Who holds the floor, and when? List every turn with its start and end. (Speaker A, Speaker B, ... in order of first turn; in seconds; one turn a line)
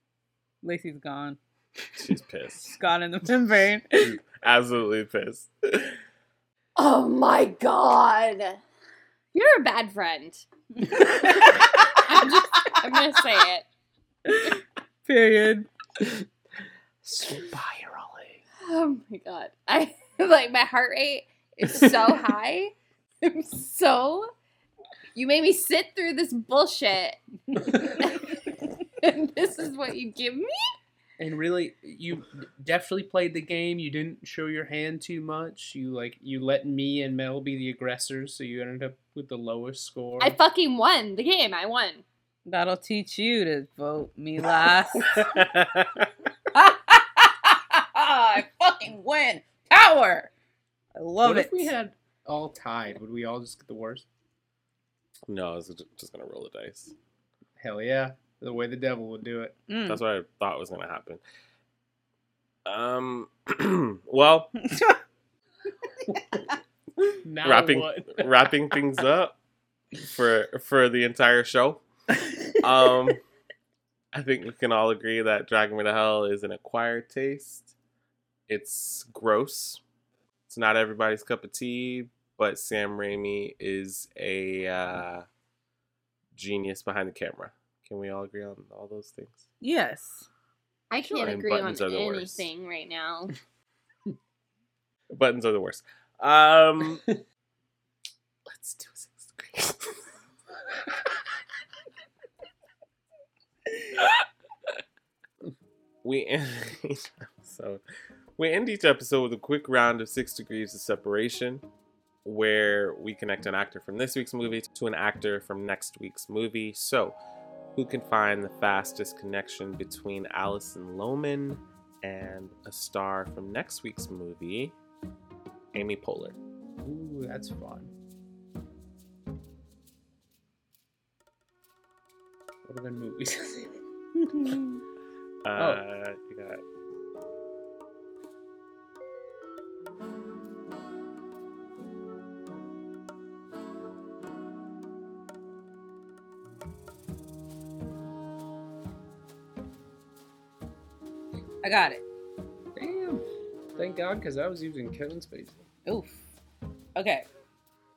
Speaker A: 0.6-1.4
Speaker B: 2.0-2.7
Speaker A: 2.7-4.2
Speaker B: 4.1-6.0
Speaker C: 6.8-8.6
Speaker C: 9.3-10.4
Speaker A: 11.0-11.6
Speaker C: 11.5-13.6
Speaker A: 14.2-15.7
Speaker D: 17.0-18.4
Speaker C: 18.6-24.3
Speaker C: 25.1-27.2
Speaker C: 27.9-28.4
Speaker C: 29.0-30.5
Speaker D: 31.2-40.4
Speaker C: 40.2-42.0
Speaker A: 42.5-45.2
Speaker B: 45.0-46.1
Speaker A: 46.5-50.3
Speaker A: 51.0-51.7
Speaker D: 51.2-54.0
Speaker B: 55.3-56.9
Speaker D: 57.6-59.6
Speaker A: 59.7-60.0
Speaker B: 59.8-61.2
Speaker B: 62.6-64.7
Speaker A: 64.6-65.0
Speaker D: 67.2-68.5
Speaker B: 67.4-69.3
Speaker B: 70.0-71.8
Speaker B: 72.6-73.2
Speaker B: 74.1-77.7
Speaker B: 78.5-79.8
Speaker B: 80.5-85.2
Speaker B: 86.3-89.4
Speaker A: 89.6-90.3
Speaker C: 90.9-93.3
Speaker B: 91.0-92.5
Speaker B: 95.1-97.1
Speaker B: 98.5-100.0
Speaker B: 106.0-107.8
Speaker B: 108.4-111.6
Speaker B: 112.2-117.2
Speaker B: 117.7-124.7
Speaker B: 125.7-126.4
Speaker D: 126.8-127.9
Speaker D: 132.7-133.8
Speaker A: 134.3-134.7
Speaker B: 135.4-136.6
Speaker D: 135.6-135.8
Speaker A: 151.6-152.0
Speaker D: 152.8-153.2
Speaker D: 153.8-155.6
Speaker A: 155.8-156.2
Speaker A: 156.9-157.2